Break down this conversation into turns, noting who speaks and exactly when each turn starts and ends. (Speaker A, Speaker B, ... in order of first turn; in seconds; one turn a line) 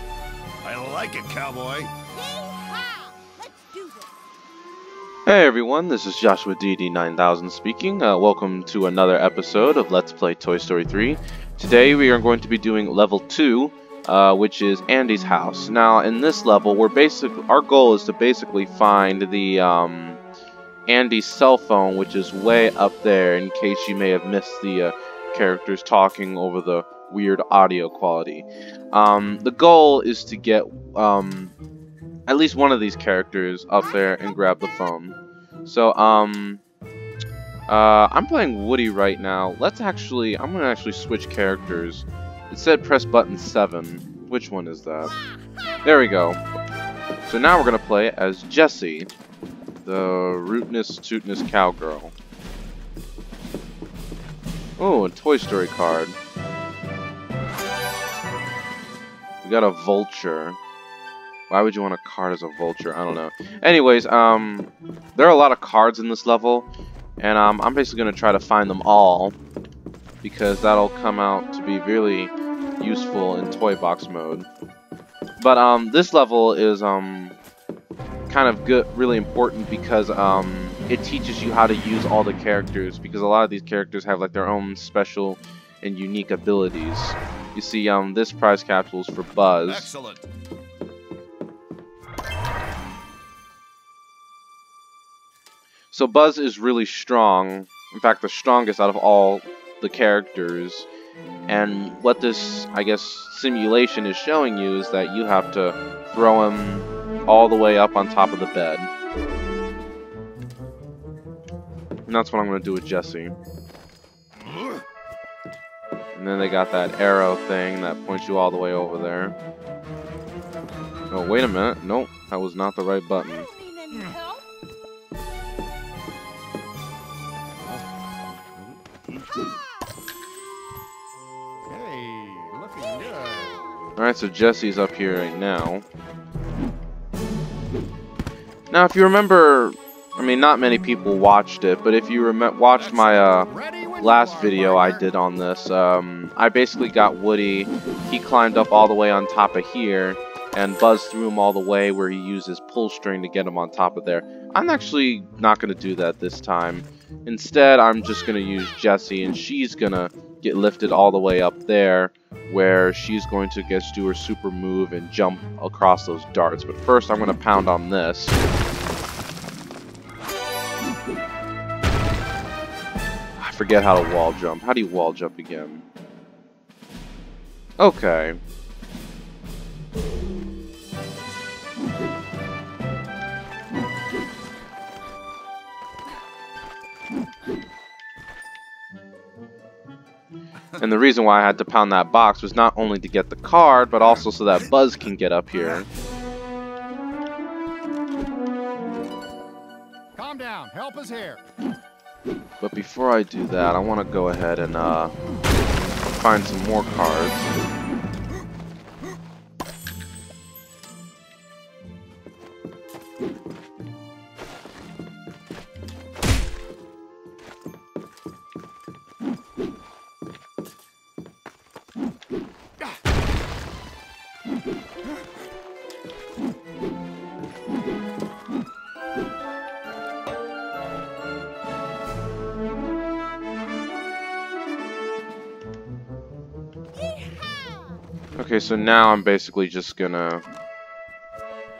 Speaker A: 0.6-1.9
Speaker B: 2.1-4.1
Speaker C: 5.3-20.2
Speaker C: 20.9-31.5
Speaker C: 32.3-36.6
Speaker C: 37.7-45.1
Speaker C: 45.8-46.4
Speaker C: 47.3-49.1
Speaker C: 49.9-52.1
Speaker C: 54.8-56.2
Speaker C: 59.4-60.6
Speaker C: 61.5-66.7
Speaker C: 67.2-69.4
Speaker C: 70.2-74.5
Speaker C: 75.4-77.4
Speaker C: 78.3-89.9
Speaker A: 89.7-90.3
Speaker C: 95.9-100.9
Speaker C: 101.5-108.9
Speaker C: 112.1-113.3
Speaker C: 116.1-119.4
Speaker C: 121.1-123.5
Speaker B: 123.2-124.5
Speaker D: 131.7-133.6
Speaker C: 134.0-135.8
Speaker C: 138.7-143.5
Speaker A: 142.8-143.3
Speaker D: 143.5-145.0
Speaker C: 144.0-168.4
Speaker C: 173.4-175.8
Speaker C: 177.8-178.4
Speaker C: 190.8-195.9
Speaker D: 200.2-201.4
Speaker C: 202.6-205.1
Speaker C: 206.2-207.5
Speaker C: 238.4-240.4